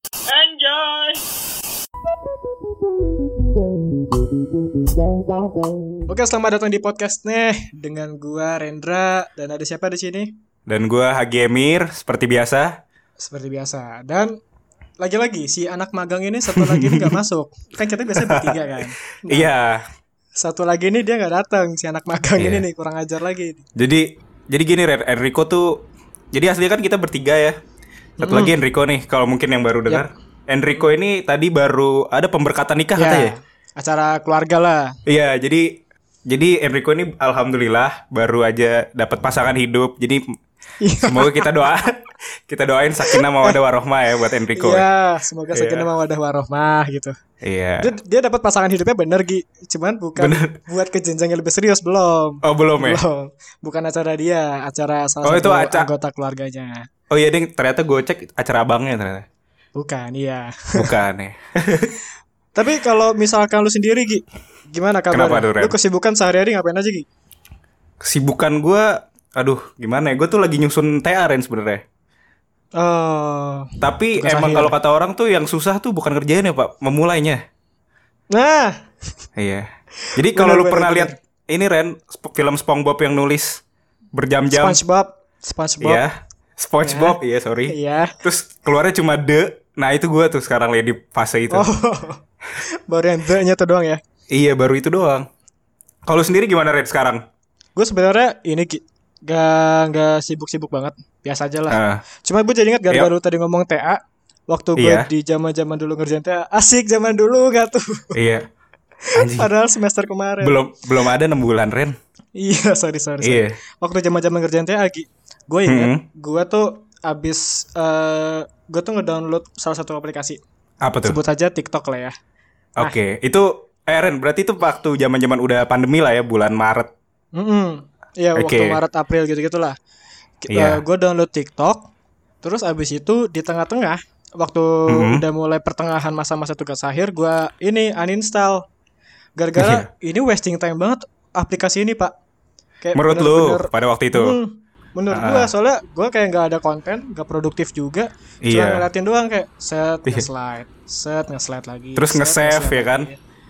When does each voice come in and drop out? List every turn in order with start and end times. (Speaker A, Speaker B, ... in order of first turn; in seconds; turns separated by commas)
Speaker A: 0.3-1.2, Speaker A: 6.1-10.3, Speaker B: 10.7-12.8, Speaker A: 13.2-14.4, Speaker A: 15.0-19.5, Speaker B: 16.6-17.2, Speaker B: 18.1-19.9, Speaker A: 20.4-23.7, Speaker B: 22.4-22.7, Speaker B: 23.8-27.6, Speaker A: 28.2-28.6, Speaker B: 28.2-33.3, Speaker A: 33.0-35.0, Speaker B: 35.1-40.4, Speaker A: 40.8-41.7, Speaker B: 41.1-44.9, Speaker A: 43.1-43.6, Speaker A: 44.5-47.2, Speaker B: 45.5-45.9, Speaker B: 47.4-48.0, Speaker A: 47.8-56.9, Speaker B: 50.2-50.5, Speaker B: 52.4-53.0, Speaker B: 55.2-55.9, Speaker B: 57.1-59.3, Speaker A: 59.8-60.9, Speaker B: 60.8-62.0, Speaker A: 62.5-67.1, Speaker B: 65.1-65.8, Speaker B: 68.0-71.8, Speaker A: 72.8-74.7, Speaker B: 73.8-77.4, Speaker A: 78.3-78.9, Speaker B: 79.4-83.6, Speaker A: 80.0-81.2, Speaker B: 84.1-84.8, Speaker A: 84.5-86.0, Speaker B: 85.8-91.7, Speaker A: 86.8-87.2, Speaker A: 87.7-88.2, Speaker A: 91.5-94.0, Speaker B: 94.3-95.3, Speaker B: 96.1-97.2, Speaker A: 97.8-108.2, Speaker B: 101.7-102.0, Speaker B: 104.8-105.1, Speaker B: 108.1-108.5, Speaker A: 109.0-110.6, Speaker B: 109.2-109.5, Speaker B: 110.4-112.0, Speaker A: 112.4-120.4, Speaker B: 113.2-113.6, Speaker B: 115.7-116.0, Speaker B: 120.8-121.2, Speaker A: 121.1-122.2, Speaker B: 122.8-126.9, Speaker A: 127.3-129.8, Speaker B: 128.3-128.8, Speaker A: 130.4-131.9, Speaker B: 130.5-130.8, Speaker A: 132.4-138.7, Speaker B: 134.9-135.2, Speaker A: 139.4-142.1, Speaker B: 139.6-139.9, Speaker A: 142.8-153.2, Speaker B: 142.9-144.4, Speaker B: 145.1-145.5, Speaker B: 148.4-148.9, Speaker B: 151.9-153.1